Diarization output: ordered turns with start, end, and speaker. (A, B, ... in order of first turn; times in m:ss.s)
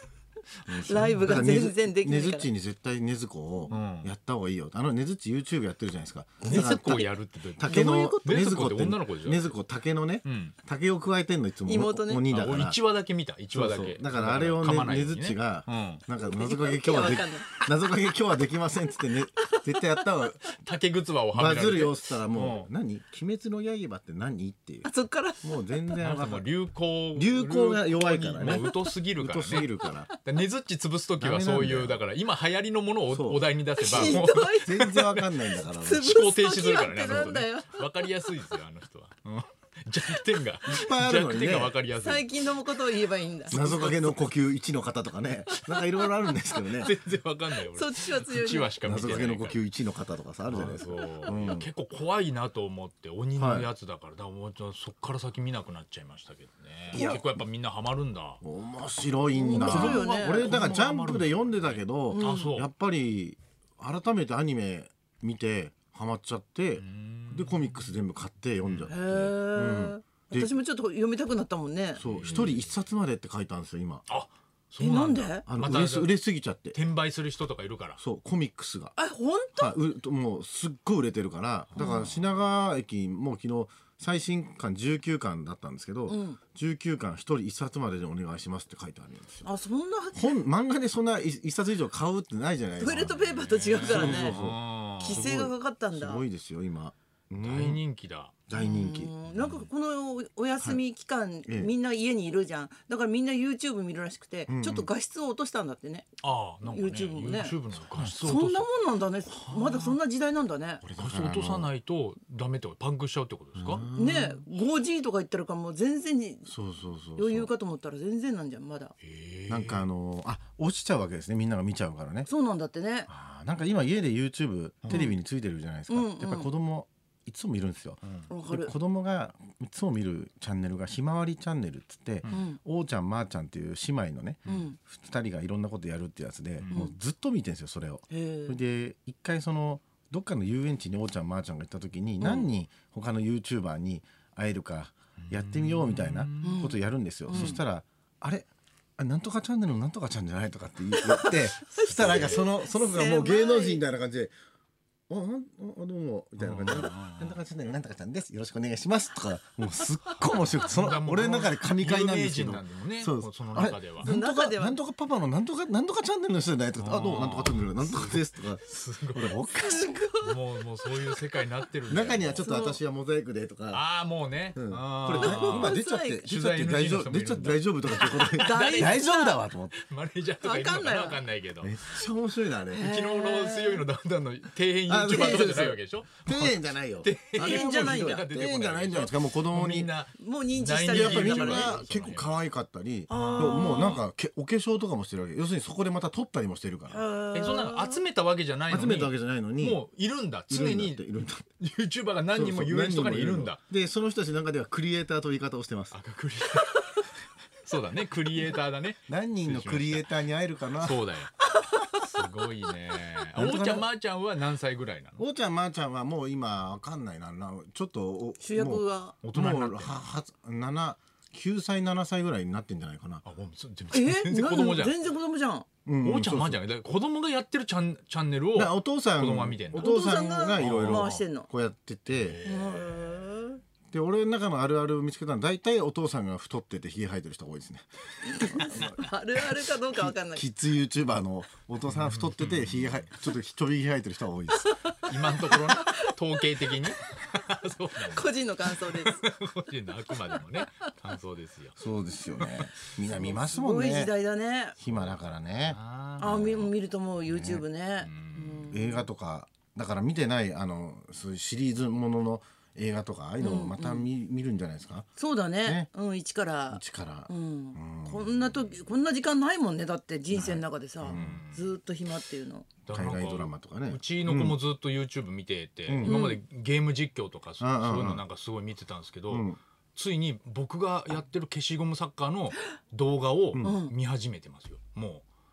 0:00.6-0:01.5 A
0:00.7-0:12.8 B
0:00.8-0:02.5 C
0:03.7-0:04.1 A
0:06.4-0:09.6 A
0:06.4-0:07.0 C
0:07.6-0:08.2 C
0:10.2-0:10.6 A
0:11.6-0:12.2 C
0:12.3-0:16.0 A
0:13.5-0:20.6 B
0:16.2-0:17.7 C
0:20.6-0:22.7 A
0:21.3-0:24.9 B
0:24.8-0:25.7 C
0:25.4-0:26.4 B
0:26.0-0:29.7 A
0:27.1-0:30.1 B
0:28.5-0:28.8 C
0:30.2-0:35.3 A
0:31.2-0:32.0 B
0:33.1-0:36.1 B
0:33.8-0:34.8 C
0:35.8-0:38.0 C
0:36.0-0:42.4 A
0:40.6-0:41.8 B
0:42.0-0:43.9 C
0:43.5-0:44.2 A
0:43.5-0:46.9 B
0:46.6-0:49.6 A
0:47.6-0:49.2 C
0:48.8-0:51.7 B
0:50.4-0:58.4 A
0:53.4-0:53.7 B
0:56.9-0:57.2 B
0:56.9-0:57.2 C
0:58.4-1:10.6 B
0:59.4-1:00.6 C
0:59.4-1:02.7 A
1:02.1-1:02.5 C
1:06.8-1:07.9 A
1:08.6-1:08.9 A
1:08.9-1:12.0 C
1:12.0-1:14.0 B
1:12.0-1:12.7 A
1:14.1-1:16.1 A
1:14.8-1:15.4 C
1:15.5-1:16.8 B
1:16.7-1:18.0 A
1:18.0-1:18.9 B
1:19.0-1:19.7 C
1:19.6-1:29.5 B
1:21.7-1:22.0 A
1:21.8-1:22.1 C
1:26.1-1:26.4 C
1:29.4-1:30.4 C
1:30.1-1:33.2 B
1:32.8-1:34.4 C
1:33.0-1:35.3 A
1:33.8-1:37.8 B
1:35.0-1:36.2 C
1:37.4-1:38.4 A
1:38.5-1:39.1 B
1:38.5-1:46.1 C
1:39.2-1:39.7 A
1:44.5-1:44.9 B
1:46.2-1:48.7 A
1:46.6-1:50.8 C
1:49.3-1:50.0 A
1:50.8-1:51.7 B
1:51.0-1:53.9 A
1:53.5-1:54.4 B
1:53.9-1:56.5 C
1:56.4-1:57.5 B
1:57.2-1:58.9 C
1:59.0-1:59.8 A
1:59.5-2:02.3 B
2:02.3-2:03.1 C
2:03.1-2:34.3 B
2:04.9-2:05.2 C
2:05.9-2:06.5 C
2:08.3-2:08.7 C
2:12.3-2:12.6 C
2:14.5-2:14.8 C
2:16.6-2:16.9 A
2:18.1-2:18.6 C
2:22.2-2:22.5 C
2:25.2-2:26.7 A
2:26.4-2:27.6 C
2:27.3-2:27.6 A
2:31.0-2:33.8 C
2:31.9-2:32.5 A
2:35.1-2:48.6 B
2:36.4-2:37.4 A
2:40.6-2:44.1 A
2:44.0-2:44.8 C
2:46.8-2:49.5 A
2:49.1-2:50.0 B
2:49.6-2:51.2 C
2:50.2-2:52.4 A
2:51.9-2:53.8 B
2:52.4-2:52.8 C
2:53.7-2:59.1 A
2:54.5-2:59.8 B
2:55.2-2:56.3 C
2:58.3-2:59.4 C
2:59.7-3:02.0 A
3:00.4-3:01.3 C
3:01.6-3:02.9 B
3:02.7-3:03.8 C
3:02.7-3:12.4 A
3:04.9-3:09.9 B
3:05.2-3:05.6 C
3:07.4-3:08.2 C
3:10.2-3:11.7 C
3:10.9-3:17.0 B
3:13.1-3:14.0 C
3:13.1-3:14.0 A
3:16.9-3:18.0 C
3:17.3-3:23.6 A
3:18.7-3:19.8 B
3:20.5-3:21.4 B
3:22.3-3:26.0 B
3:25.9-3:27.1 A
3:27.6-3:30.1 A
3:29.1-3:31.0 B
3:30.8-3:31.3 A
3:31.4-3:32.2 C
3:31.9-3:35.2 A
3:33.3-3:33.9 B
3:35.2-3:43.2 B
3:38.4-3:39.2 C
3:39.2-3:40.0 A
3:43.2-3:45.0 A
3:43.9-3:45.6 C
3:45.8-3:46.6 B
3:46.0-3:49.9 A
3:48.5-3:52.4 B
3:49.8-3:51.5 C
3:50.6-3:51.2 A
3:52.1-3:53.3 A
3:52.4-3:53.6 C
3:53.9-3:59.1 B
3:58.2-4:00.4 C
3:59.9-4:04.8 B
4:01.8-4:03.1 A
4:04.6-4:06.1 C
4:05.0-4:11.8 A
4:08.0-4:09.2 C
4:11.8-4:14.1 B
4:12.4-4:12.7 A
4:13.1-4:14.8 C
4:14.8-4:16.7 B
4:14.8-4:16.4 A
4:16.2-4:19.0 C
4:17.2-4:17.6 B
4:18.0-4:18.8 A
4:18.7-4:25.1 B
4:23.4-4:24.1 C
4:25.2-4:32.7 C
4:25.6-4:25.9 B
4:26.7-4:28.7 B
4:30.3-4:31.4 B
4:31.0-4:31.7 A
4:32.8-4:45.2 A
4:32.9-4:34.6 B
4:35.9-4:36.2 B
4:36.0-4:36.4 C
4:37.6-4:38.2 B
4:39.3-4:39.6 B
4:43.6-4:43.9 C